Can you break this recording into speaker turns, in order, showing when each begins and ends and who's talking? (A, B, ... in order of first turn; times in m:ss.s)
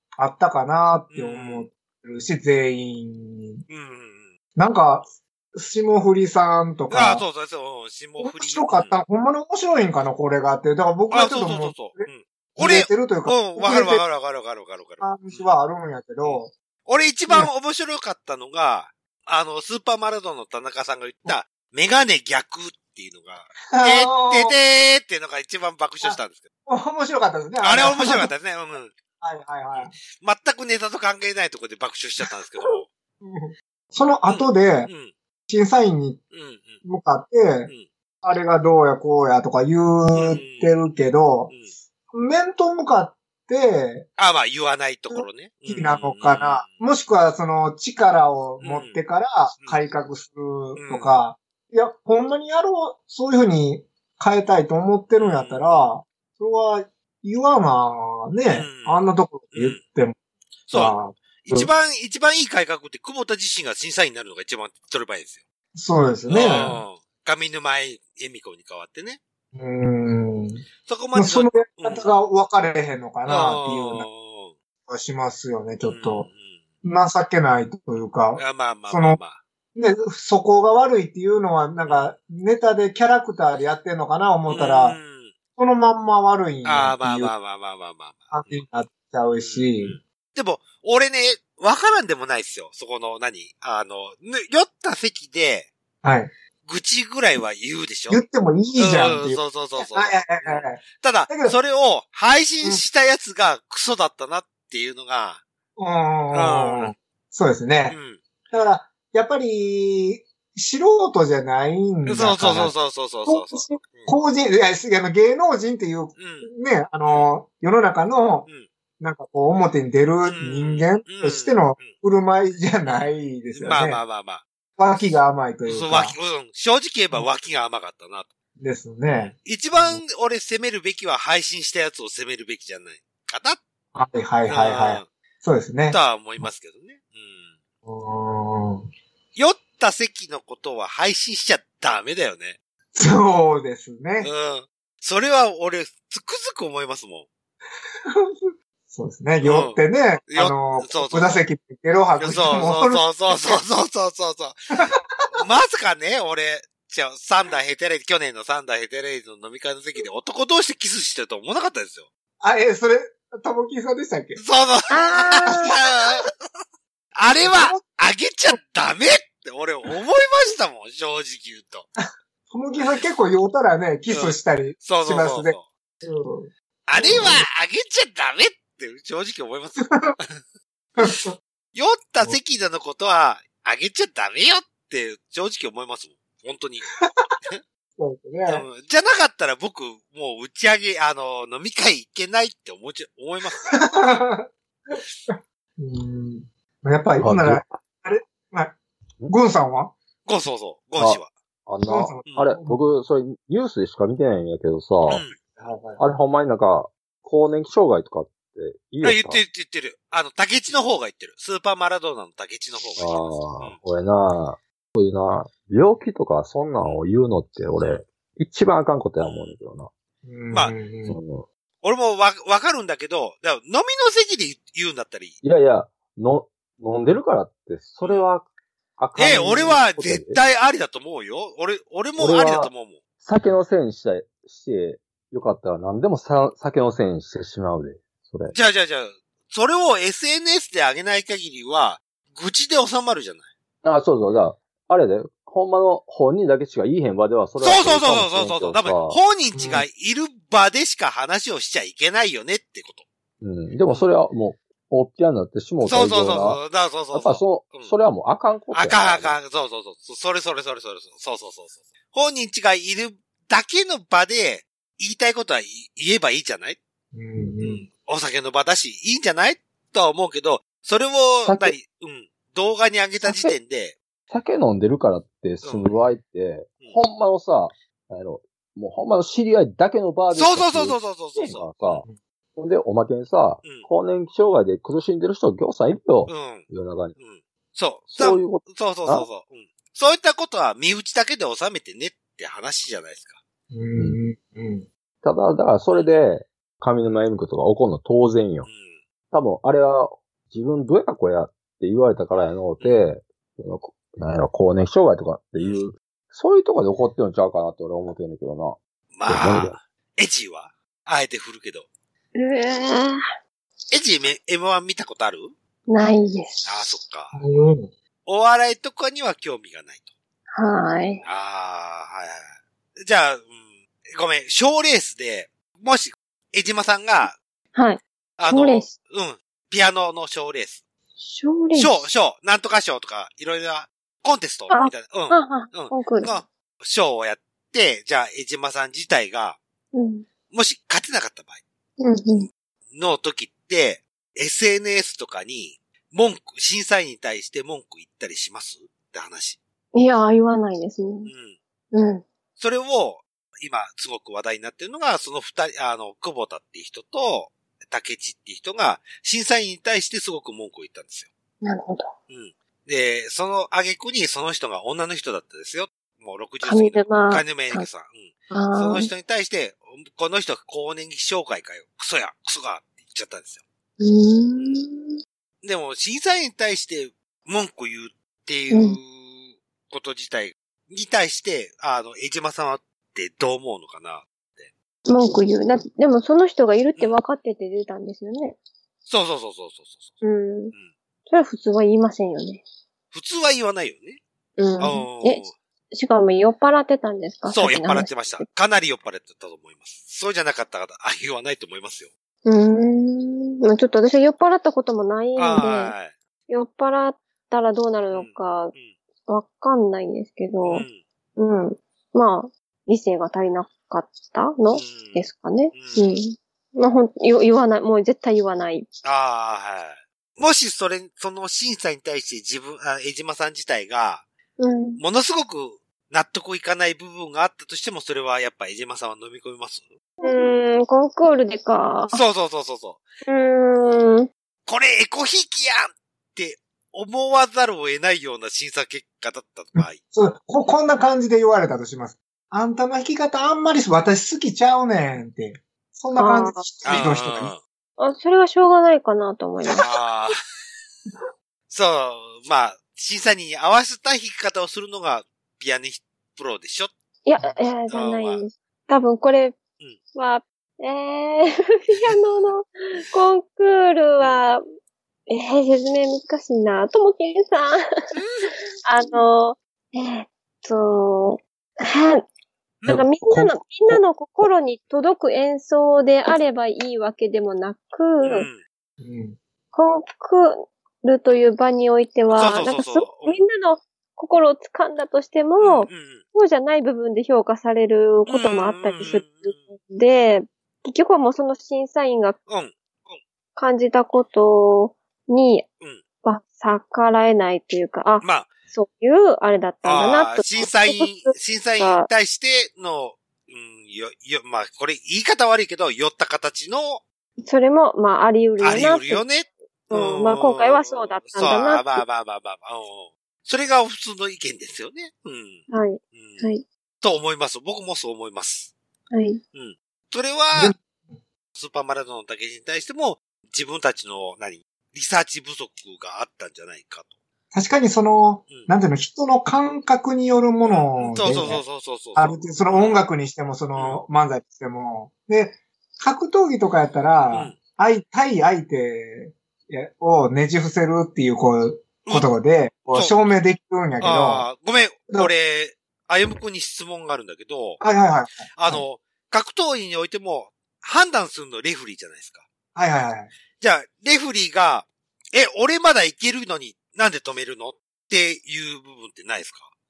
0:00.2-0:03.6 A
0:01.1-0:01.7 B
0:03.7-0:04.3 B
0:04.5-0:07.2 A
0:06.9-0:09.0 B
0:08.2-0:14.0 A
0:11.1-0:15.5 B
0:15.0-0:16.5 A
0:16.2-0:26.4 B
0:23.7-0:24.5 A
0:26.0-0:28.3 A
0:27.6-0:28.9 B
0:29.2-0:29.9 A
0:29.7-0:32.8 B
0:33.2-0:34.9 A
0:34.3-0:35.1 B
0:35.5-0:36.2 A
0:36.3-0:36.8 B
0:36.8-0:37.7 A
0:38.2-0:41.5 A
0:40.1-0:40.7 B
0:42.1-0:44.1 A
0:44.2-0:46.7 B
0:45.1-1:00.2 A
0:48.6-0:49.0 B
0:50.8-0:51.1 B
0:55.2-0:55.9 B
0:58.5-0:59.8 B
1:00.7-1:05.4 B
1:00.7-1:01.7 A
1:05.7-1:06.8 A
1:06.3-1:09.2 B
1:09.5-1:10.6 A
1:10.8-1:12.1 B
1:11.1-1:14.0 A
1:13.2-1:14.5 B
1:14.9-1:16.3 A
1:15.8-1:16.6 B
1:16.8-1:19.2 A
1:18.4-1:19.4 B
1:19.7-1:25.0 A
1:21.9-1:22.1 B
1:24.5-1:25.3 B
1:25.6-1:27.3 A
1:26.6-1:28.6 B
1:28.3-1:30.0 A
1:29.4-1:35.7 B
1:36.0-1:36.3 A
1:36.6-1:38.2 B
1:38.1-1:41.6 A
1:38.8-1:45.4 B
1:45.8-1:48.0 A
1:46.3-1:46.9 B
1:47.9-1:48.2 B
1:48.5-1:52.7 A
1:52.0-1:54.1 B
1:53.2-1:58.5 A
1:56.2-1:56.5 B
1:59.0-2:04.0 A
2:00.3-2:01.9 B
2:02.8-2:04.4 B
2:04.8-2:06.1 A
2:05.6-2:08.3 B
2:08.6-2:10.0 A
2:09.1-2:13.6 B
2:13.9-2:16.4 A
2:14.5-2:15.1 B
2:15.9-2:17.5 B
2:17.8-2:18.9 A
2:19.3-2:22.6 B
2:22.9-2:24.3 A
2:24.2-2:27.3 B
2:28.1-2:33.6 A
2:29.4-2:29.8 B
2:30.3-2:31.4 B
2:32.2-2:34.6 B
2:34.7-2:35.3 A
2:35.3-2:42.1 B
2:42.4-2:44.4 A
2:44.4-2:46.3 B
2:44.9-2:45.7 C
2:45.4-2:45.8 A
2:47.2-2:51.9 B
2:47.4-2:47.8 A
2:52.5-2:57.4 A
2:52.8-2:53.0 B
2:54.1-2:55.6 B
2:56.9-3:00.4 B
2:59.8-3:00.1 A
3:01.0-3:01.4 A
3:01.7-3:06.8 B
3:07.1-3:07.3 A
3:08.0-3:08.6 A
3:08.5-3:13.8 B
3:13.6-3:18.8 A
3:17.2-3:17.7 D
3:19.3-3:19.9 A
3:20.2-3:21.3 B
3:21.0-3:25.2 D
3:21.9-3:22.8 A
3:25.1-3:25.3 B
3:25.6-3:26.0 A
3:26.0-3:29.4 D
3:29.0-3:33.8 B
3:33.0-3:39.9 D
3:39.2-3:39.6 B
3:40.2-3:41.2 A
3:41.0-3:41.4 D
3:41.8-3:45.4 B
3:45.4-3:48.4 D
3:48.0-3:48.2 B
3:49.0-3:50.4 D
3:49.2-3:53.0 B
3:52.2-3:52.7 D
3:53.2-3:58.5 D
3:58.5-4:03.5 B
4:03.8-4:09.2 D
4:07.6-4:13.0 B
4:09.5-4:09.8 A
4:13.4-4:16.6 D
4:15.8-4:17.9 B
4:17.1-4:19.4 D
4:18.7-4:26.8 B
4:27.1-4:27.9 A
4:27.6-4:34.0 B
4:31.4-4:31.8 D
4:33.2-4:33.5 D
4:34.3-4:47.1 D
4:35.6-4:35.9 B
4:40.3-4:42.0 B
4:46.3-4:46.6 B
4:47.2-4:53.4 B
4:48.1-4:49.3 D
4:53.7-4:54.8 A
4:55.2-4:58.7 D
4:58.6-4:59.0 B
4:59.3-5:09.8 D
5:05.6-5:05.8 B
5:09.1-5:11.9 B
5:12.3-5:13.2 C
5:13.9-5:15.5 B
5:15.9-5:16.7 C
5:16.6-5:17.4 B
5:17.3-5:17.9 A
5:18.2-5:20.1 B
5:20.5-5:21.2 C
5:21.2-5:22.5 B
5:23.0-5:27.3 B
5:27.7-5:28.9 C
5:28.4-5:30.8 B
5:31.2-5:32.0 C
5:31.7-5:39.6 B
5:34.7-5:36.3 C
5:39.9-5:40.2 C
5:40.5-5:41.6 B
5:42.0-5:42.5 C
5:42.9-5:49.6 B
5:49.9-5:51.3 C
5:51.2-5:51.6 B
5:51.9-5:52.2 C
5:52.6-6:01.3 B
6:01.6-6:02.1 C
6:02.3-6:13.6 B
6:06.6-6:07.8 C
6:08.5-6:09.1 C
6:14.0-6:15.2 C
6:15.6-6:24.7 B
6:18.7-6:19.0 C
6:25.1-6:28.6 C
6:29.1-6:30.2 B
6:30.2-6:30.7 C
6:31.3-6:32.6 C
6:33.1-6:34.2 B
6:34.6-6:38.5 C
6:34.8-6:35.5 B
6:37.5-6:42.1 B
6:42.4-6:45.9 C
6:45.4-6:46.1 B
6:46.5-6:48.7 C
6:48.1-6:48.9 B
6:49.3-6:50.8 C
6:50.6-6:51.0 B
6:51.4-6:58.9 C
6:54.7-6:56.1 B
6:59.0-7:04.2 B
7:04.6-7:05.0 C
7:05.0-7:09.8 B
7:10.2-7:12.2 C
7:12.1-7:13.0 B
7:13.2-7:14.3 C
7:14.6-7:20.0 B
7:19.8-7:27.5 A
7:26.2-7:26.6 C
7:26.8-7:27.6 B
7:28.0-7:29.9 C
7:29.7-7:30.4 B
7:31.7-7:36.9 B
7:37.2-7:39.6 C
7:37.9-7:38.4 B
7:40.1-7:44.6 C
7:45.3-7:47.8 C
7:48.1-7:48.5 B
7:48.8-7:52.2 C
7:52.8-7:54.0 D
7:52.8-7:58.4 C
7:58.2-7:58.6 B
7:59.0-7:59.4 A
7:59.7-8:12.4 C
8:02.3-8:03.4 B
8:05.6-8:06.2 B
8:08.3-8:09.6 B
8:12.5-8:13.2 B
8:13.6-8:15.6 C
8:16.2-8:22.1 C
8:18.2-8:18.5 B
8:19.8-8:27.0 B
8:27.4-8:29.2 C
8:28.6-8:36.4 B
8:29.9-8:32.0 C
8:35.7-8:36.6 C
8:37.0-8:38.7 B
8:39.1-8:39.4 C
8:39.5-8:40.7 B
8:40.5-8:41.2 A
8:41.6-8:47.1 B
8:47.5-8:51.6 A
8:50.7-8:53.0 B
8:52.2-9:04.4 A
8:53.7-8:54.0 B
8:57.3-8:57.6 B
9:04.0-9:07.8 B
9:07.8-9:08.8 A
9:08.5-9:12.4 B
9:12.7-9:13.3 A
9:13.6-9:19.7 B